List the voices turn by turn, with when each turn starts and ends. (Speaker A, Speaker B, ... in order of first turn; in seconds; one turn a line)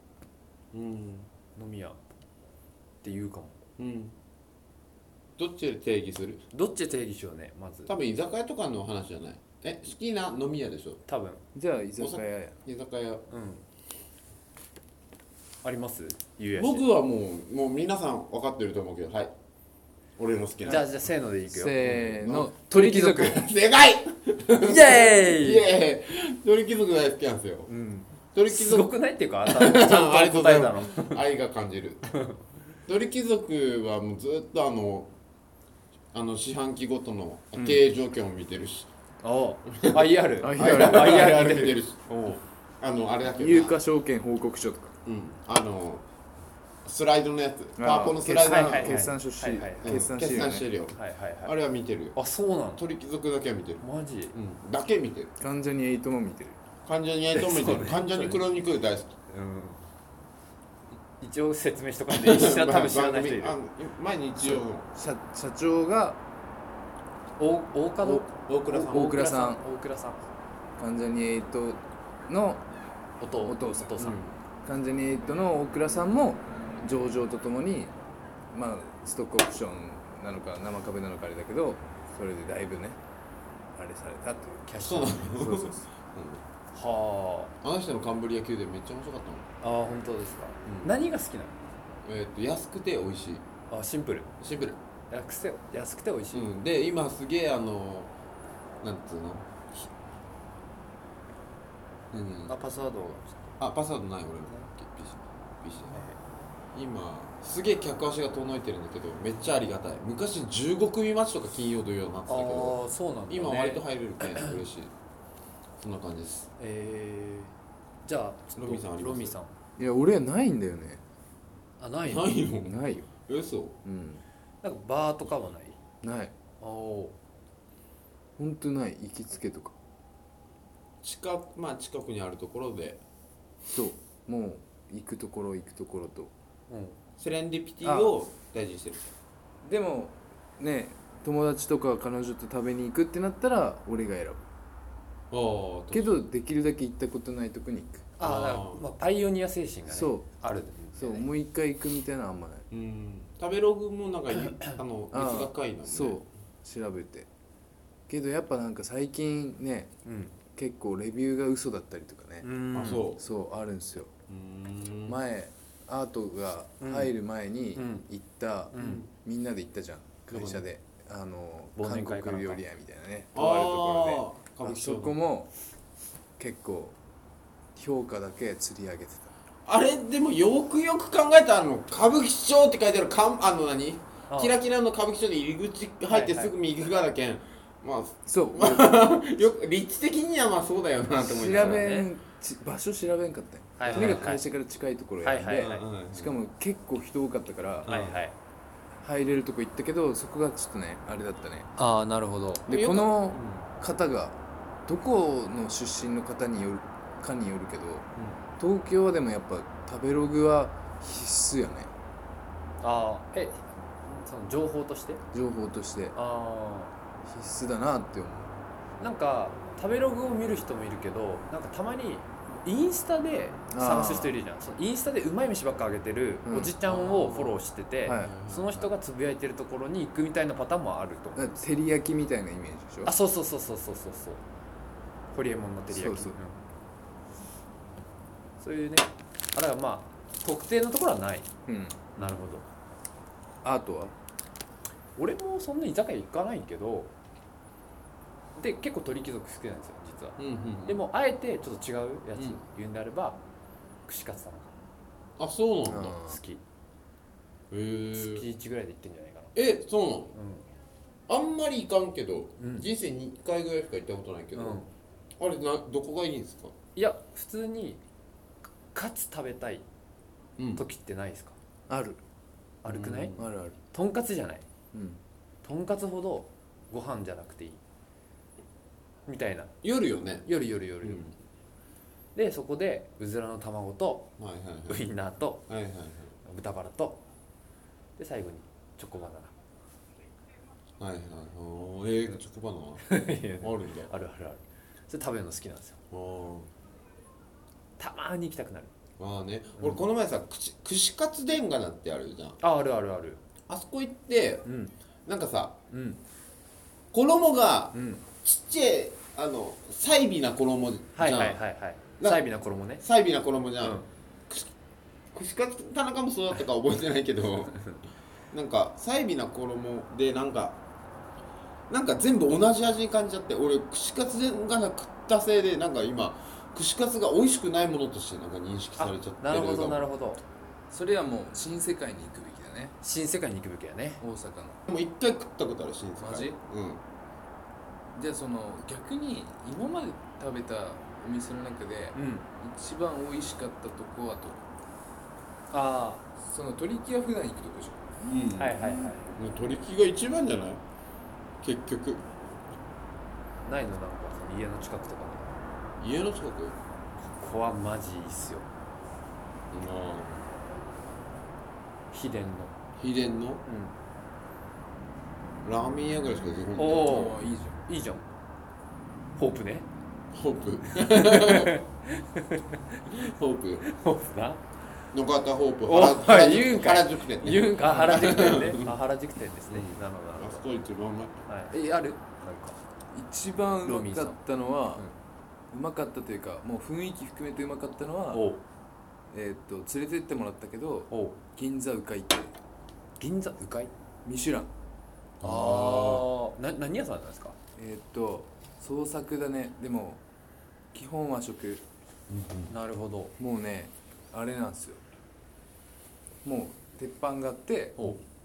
Speaker A: 0.7-1.3
Speaker B: 1.6-2.0
Speaker B: 3.0-3.6
Speaker A: 3.8-4.1
Speaker A: 5.4-6.4
Speaker B: 6.5-7.9
Speaker A: 7.9-11.0
Speaker B: 11.1-11.4
Speaker C: 11.5-12.6
Speaker A: 12.0-13.2
Speaker B: 13.3-13.6
Speaker B: 15.6-16.9
Speaker A: 16.5-19.3
Speaker A: 20.2-20.9
Speaker B: 20.6-21.8
Speaker C: 21.5-23.4
Speaker A: 21.8-27.7
Speaker B: 22.7-23.4
Speaker B: 24.6-25.6
Speaker B: 27.7-31.2
Speaker A: 28.3-28.9
Speaker A: 29.4-32.0
Speaker A: 32.9-35.1
Speaker A: 36.1-38.9
Speaker C: 37.5-37.8
Speaker B: 39.2-42.4
Speaker A: 39.7-43.7
Speaker C: 40.4-41.3
Speaker C: 43.2-45.0
Speaker A: 45.0-46.0
Speaker A: 46.8-49.1
Speaker C: 47.8-50.7
Speaker B: 48.4-50.0
Speaker A: 49.8-52.2
Speaker B: 50.9-51.5
Speaker B: 52.1-52.8
Speaker A: 52.8-55.3
Speaker B: 53.8-54.3
Speaker C: 55.4-56.6
Speaker A: 56.9-59.1
Speaker B: 57.3-58.4
Speaker B: 59.3-59.8
Speaker B: 61.2-63.5
Speaker A: 62.1-64.9
Speaker C: 64.4-66.2
Speaker B: 67.4-70.2
Speaker A: 68.4-69.2
Speaker C: 68.8-69.6
Speaker C: 70.8-72.7
Speaker B: 73.2-74.2
Speaker C: 73.4-74.0
Speaker A: 74.0-74.4
Speaker C: 74.6-77.9
Speaker C: 78.5-83.0
Speaker C: 83.7-84.7
Speaker B: 84.7-85.2
Speaker A: 84.8-86.4
Speaker C: 85.2-85.8
Speaker B: 86.7-87.5
Speaker A: 87.6-89.5
Speaker B: 89.6-91.5
Speaker A: 90.7-90.9
Speaker A: 92.0-93.4
Speaker B: 93.7-94.3
Speaker A: 94.4-94.8
Speaker B: 95.1-96.5
Speaker A: 96.3-98.1
Speaker A: 98.8-99.9
Speaker A: 102.1-102.6
Speaker B: 102.5-103.5
Speaker A: 103.6-106.0
Speaker B: 105.9-106.2
Speaker A: 106.7-114.9
Speaker B: 112.3-114.6
Speaker A: 115.8-116.5
Speaker B: 116.6-117.5
Speaker B: 118.0-119.5
Speaker A: 118.6-119.3
Speaker C: 119.8-121.0
Speaker B: 121.8-122.3
Speaker A: 122.0-123.8
Speaker C: 122.6-123.1
Speaker C: 123.8-124.2
Speaker B: 124.6-125.8
Speaker C: 126.0-126.3
Speaker B: 126.6-127.2
Speaker C: 128.4-129.8
Speaker A: 131.0-133.0
Speaker C: 133.7-136.3
Speaker B: 136.7-136.9
Speaker A: 137.2-139.1
Speaker C: 137.8-138.1
Speaker C: 139.6-144.4
Speaker A: 145.3-146.2
Speaker C: 145.9-148.1
Speaker B: 148.2-151.2
Speaker A: 148.2-148.8
Speaker C: 149.9-150.3
Speaker C: 150.9-152.7
Speaker A: 152.7-156.2
Speaker C: 155.1-157.3
Speaker C: 158.1-159.9
Speaker B: 160.0-160.3
Speaker C: 160.5-164.1
Speaker B: 162.4-163.0
Speaker A: 162.7-163.2
Speaker A: 164.3-165.2
Speaker C: 165.1-175.5
Speaker B: 166.8-167.1
Speaker B: 167.7-168.1
Speaker B: 168.7-169.0
Speaker A: 168.8-169.1
Speaker A: 170.3-170.6
Speaker B: 171.8-172.6
Speaker A: 173.3-175.2
Speaker C: 176.4-177.0
Speaker C: 177.7-179.3
Speaker A: 179.7-191.8
Speaker B: 184.3-184.6
Speaker B: 186.1-186.5
Speaker C: 188.2-189.0
Speaker C: 191.2-197.9
Speaker B: 191.5-192.1
Speaker B: 193.8-194.4
Speaker A: 193.8-194.3
Speaker B: 195.2-195.8
Speaker A: 195.5-196.4
Speaker A: 197.8-198.2
Speaker B: 197.8-198.3
Speaker C: 199.0-201.7
Speaker B: 201.8-202.7
Speaker A: 202.7-203.7
Speaker C: 202.7-211.9
Speaker B: 212.8-215.2
Speaker C: 215.3-216.1
Speaker B: 216.1-216.9
Speaker C: 217.2-218.5
Speaker B: 219.0-231.5
Speaker C: 223.7-224.3
Speaker C: 226.4-226.8
Speaker A: 226.8-228.9
Speaker C: 228.0-228.4
Speaker C: 231.3-233.1
Speaker B: 233.0-234.4
Speaker B: 235.3-236.6
Speaker C: 235.9-236.4
Speaker B: 238.6-241.5
Speaker C: 241.7-242.0
Speaker B: 242.1-242.6
Speaker C: 243.6-244.1
Speaker B: 245.2-247.1
Speaker B: 248.6-253.4
Speaker A: 250.4-251.0
Speaker A: 252.3-252.6
Speaker B: 254.1-254.7
Speaker A: 255.4-256.2
Speaker C: 255.8-256.4
Speaker B: 256.1-256.6
Speaker A: 257.7-258.4
Speaker B: 258.1-259.6
Speaker A: 259.5-260.3
Speaker B: 260.3-260.6
Speaker A: 261.3-264.8
Speaker B: 262.6-262.9
Speaker B: 264.5-264.9
Speaker A: 265.4-266.7
Speaker B: 266.9-268.0
Speaker B: 268.9-269.8
Speaker A: 270.6-270.8
Speaker B: 270.7-271.6
Speaker C: 271.9-272.2
Speaker B: 272.8-274.6
Speaker A: 272.9-273.5
Speaker C: 273.4-273.8
Speaker C: 274.9-275.2
Speaker B: 275.6-277.8
Speaker B: 279.3-279.7
Speaker A: 279.8-280.5
Speaker B: 280.4-281.3
Speaker A: 281.0-281.3
Speaker B: 282.3-284.3
Speaker A: 284.4-285.1
Speaker B: 284.9-285.6
Speaker A: 285.7-286.3
Speaker B: 286.4-287.2
Speaker B: 288.2-289.5
Speaker A: 291.0-293.1
Speaker B: 293.0-295.9
Speaker A: 293.6-294.1
Speaker A: 296.1-296.7
Speaker B: 298.0-298.9
Speaker A: 299.2-302.6
Speaker B: 299.8-300.0
Speaker B: 302.6-303.4
Speaker A: 303.7-304.6
Speaker B: 304.6-304.9
Speaker A: 305.2-305.8
Speaker B: 305.9-306.2
Speaker A: 307.1-311.6
Speaker B: 307.9-308.2
Speaker B: 311.1-313.0
Speaker A: 313.0-314.7
Speaker B: 313.8-314.1
Speaker A: 315.3-317.8
Speaker A: 318.5-320.8
Speaker A: 321.9-330.1
Speaker B: 329.0-330.4
Speaker C: 330.9-332.9
Speaker B: 333.0-334.2
Speaker C: 334.2-334.8
Speaker A: 334.9-337.0
Speaker C: 336.2-336.6
Speaker C: 338.1-344.6
Speaker B: 342.1-342.5
Speaker B: 345.7-346.2
Speaker C: 346.4-348.4
Speaker A: 348.3-348.8
Speaker B: 348.6-349.3
Speaker A: 349.4-350.8
Speaker A: 351.6-352.2
Speaker B: 353.6-355.4
Speaker A: 356.0-356.8
Speaker B: 357.3-358.7
Speaker A: 359.7-360.4
Speaker B: 362.1-362.7
Speaker A: 363.0-363.6
Speaker B: 363.6-363.9
Speaker A: 365.6-367.3
Speaker B: 366.8-368.3
Speaker C: 367.0-367.8
Speaker B: 369.4-369.9
Speaker A: 370.3-371.7
Speaker B: 370.9-372.8
Speaker A: 373.1-373.8
Speaker B: 373.8-374.6
Speaker A: 375.1-378.9
Speaker B: 375.8-380.6
Speaker A: 379.7-381.4
Speaker B: 381.5-382.8
Speaker C: 383.1-385.1
Speaker B: 383.8-384.4
Speaker C: 385.7-388.5
Speaker B: 388.3-388.6
Speaker C: 389.3-392.5
Speaker B: 391.1-391.4
Speaker B: 393.2-393.9
Speaker C: 394.2-394.7
Speaker A: 395.4-396.3
Speaker B: 395.4-397.5
Speaker C: 397.8-400.2
Speaker C: 400.9-401.8
Speaker A: 402.3-402.7
Speaker B: 402.7-403.3
Speaker C: 403.4-405.0
Speaker C: 406.4-408.1